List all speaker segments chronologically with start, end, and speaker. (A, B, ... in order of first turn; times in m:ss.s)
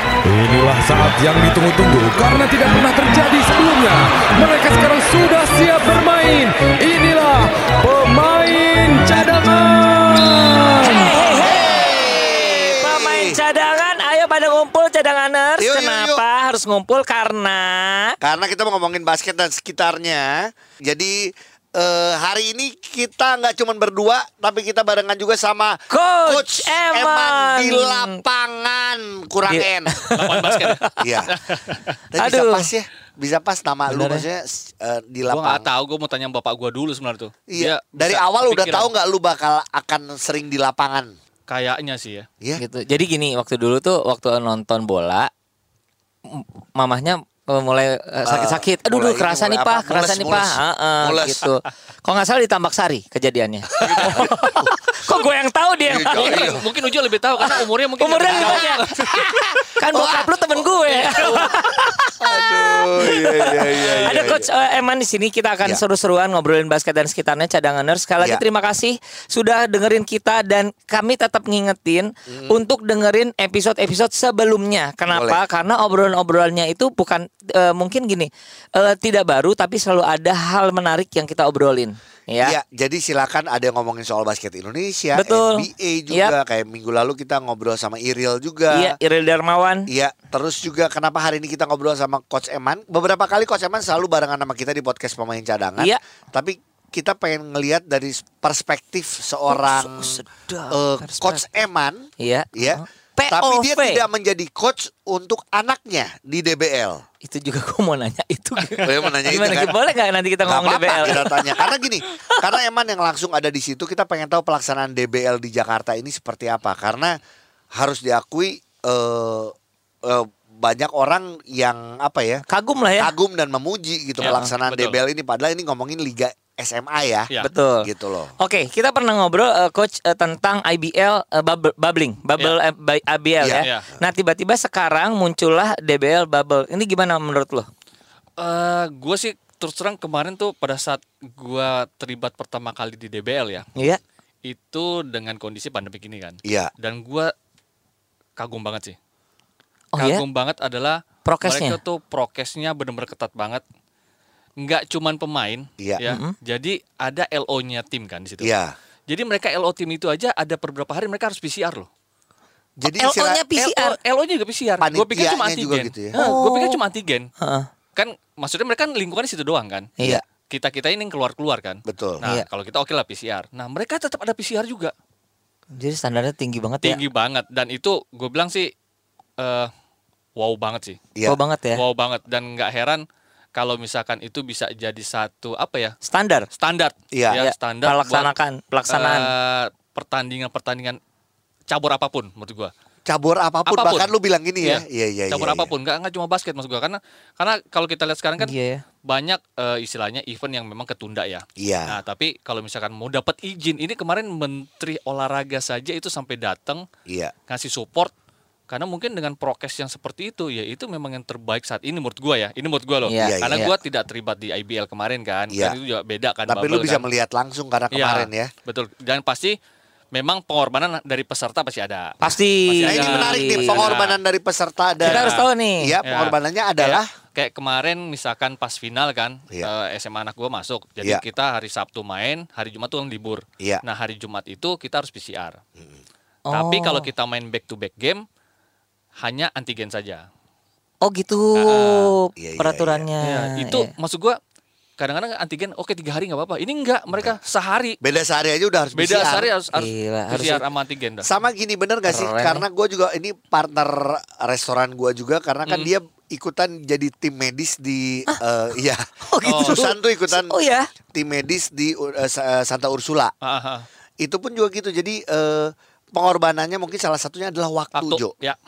0:00.2-0:11.2 A
0:10.8-0:18.2 B
0:11.4-0:13.4 C
0:15.6-0:16.2 C
0:18.2-0:30.0 C
0:25.9-0:28.2 B
0:29.5-0:31.0 B
0:30.2-0:32.0 D
0:31.0-0:31.4 C
0:32.1-0:35.6 C
0:32.2-0:32.7 B
0:33.9-0:34.2 B
0:35.3-0:38.9 D
0:37.5-0:41.1 C
0:41.5-0:42.3 D
0:42.6-0:45.3 B
0:46.3-0:56.6 B
0:48.2-0:51.4 C
0:53.7-0:55.0 C
0:53.8-0:54.3 D
0:55.9-0:56.6 C
0:56.0-0:59.0 D
0:58.0-1:22.6 B
0:58.3-0:59.2 C
0:59.9-1:01.5 C
1:00.9-1:01.4 D
1:02.2-1:04.5 C
1:03.9-1:04.2 D
1:12.3-1:12.6 C
1:15.1-1:15.4 C
1:22.4-1:29.0 C
1:25.1-1:26.3 B
1:28.7-1:29.8 B
1:29.9-1:47.0 C
1:39.5-1:41.6 B
1:42.2-1:44.0 B
1:47.2-1:52.5 B
1:48.8-1:49.8 C
1:50.4-1:57.2 C
1:57.7-1:59.5 C
2:00.0-2:02.4 C
2:02.5-2:03.1 B
2:03.0-2:07.3 C
2:04.2-2:05.0 D
2:07.4-2:07.8 B
2:07.8-2:08.3 C
2:08.4-2:17.7 B
2:13.6-2:13.8 D
2:18.4-2:23.7 D
2:24.4-2:27.3 D
2:26.4-2:26.7 C
2:28.4-2:29.0 D
2:29.9-2:30.2 B
2:30.0-2:33.6 D
2:31.2-2:31.8 B
2:34.6-2:38.5 D
2:36.0-2:36.3 B
2:38.4-2:38.7 C
2:39.1-2:41.9 D
2:42.8-2:43.4 C
2:43.0-2:44.0 B
2:43.6-2:47.3 D
2:44.8-2:46.2 C
2:46.2-2:46.8 B
2:47.4-2:47.7 B
2:48.0-2:49.9 D
2:50.5-2:54.9 D
2:51.8-2:52.2 C
2:55.7-2:57.0 B
2:56.8-2:58.7 D
2:59.4-2:59.7 D
3:00.4-3:01.0 D
3:01.2-3:01.8 B
3:01.7-3:03.0 D
3:03.5-3:06.0 D
3:06.0-3:06.5 B
3:06.6-3:08.3 D
3:07.1-3:07.4 C
3:07.3-3:09.3 B
3:08.9-3:11.0 D
3:11.7-3:12.7 D
3:13.1-3:15.7 C
3:13.7-3:18.5 D
3:18.4-3:18.8 B
3:19.0-3:26.8 D
3:21.6-3:22.0 C
3:27.1-3:27.3 C
3:27.5-3:28.1 D
3:28.7-3:37.0 D
3:33.0-3:33.7 B
3:33.2-3:33.7 C
3:36.5-3:38.5 C
3:37.9-3:39.6 D
3:40.1-3:44.2 D
3:42.2-3:43.9 B
3:42.8-3:47.0 C
3:45.0-3:45.9 B
3:45.0-3:45.5 D
3:46.0-3:55.6 D
3:56.5-3:57.1 B
3:56.5-3:58.2 D
3:59.2-4:00.2 D
4:01.0-4:03.9 B
4:01.6-4:02.1 D
4:02.4-4:03.0 C
4:03.2-4:04.4 D
4:05.0-4:08.0 D
4:08.0-4:09.5 C
4:08.9-4:11.2 D
4:09.7-4:10.6 B
4:11.2-4:20.6 C
4:12.1-4:12.6 B
4:19.3-4:20.9 B
4:19.4-4:19.8 D
4:21.1-4:23.3 C
4:23.4-4:23.8 D
4:24.2-4:28.3 C
4:28.0-4:28.6 D